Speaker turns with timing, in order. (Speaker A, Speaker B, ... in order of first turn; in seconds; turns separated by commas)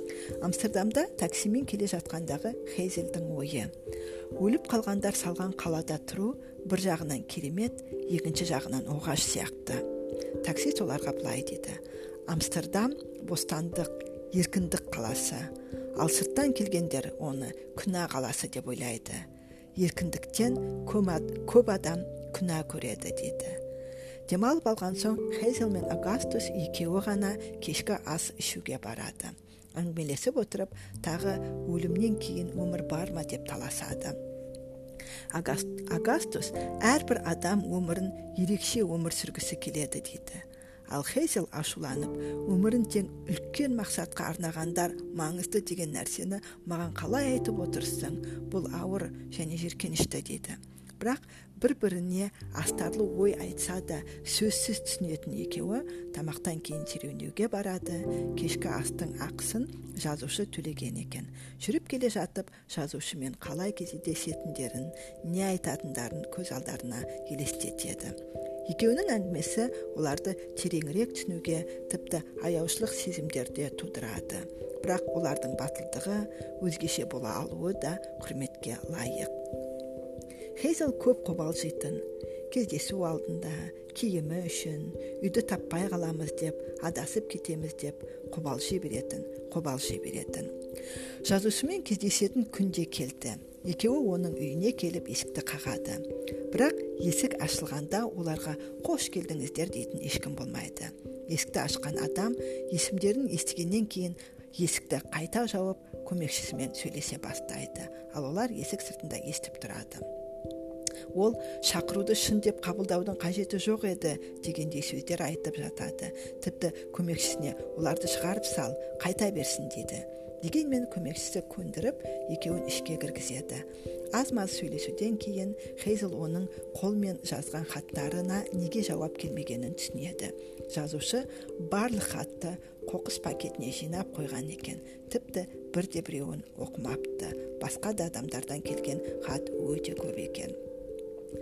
Speaker A: 0.4-3.7, Speaker A: 4.4-9.8, Speaker A: 10.4-19.2, Speaker A: 19.8-23.6, Speaker A: 24.3-34.2, Speaker A: 35.3-68.1, Speaker A: 68.7-79.3, Speaker A: 80.5-90.5, Speaker A: 91.2-110.0, Speaker A: 111.1-140.6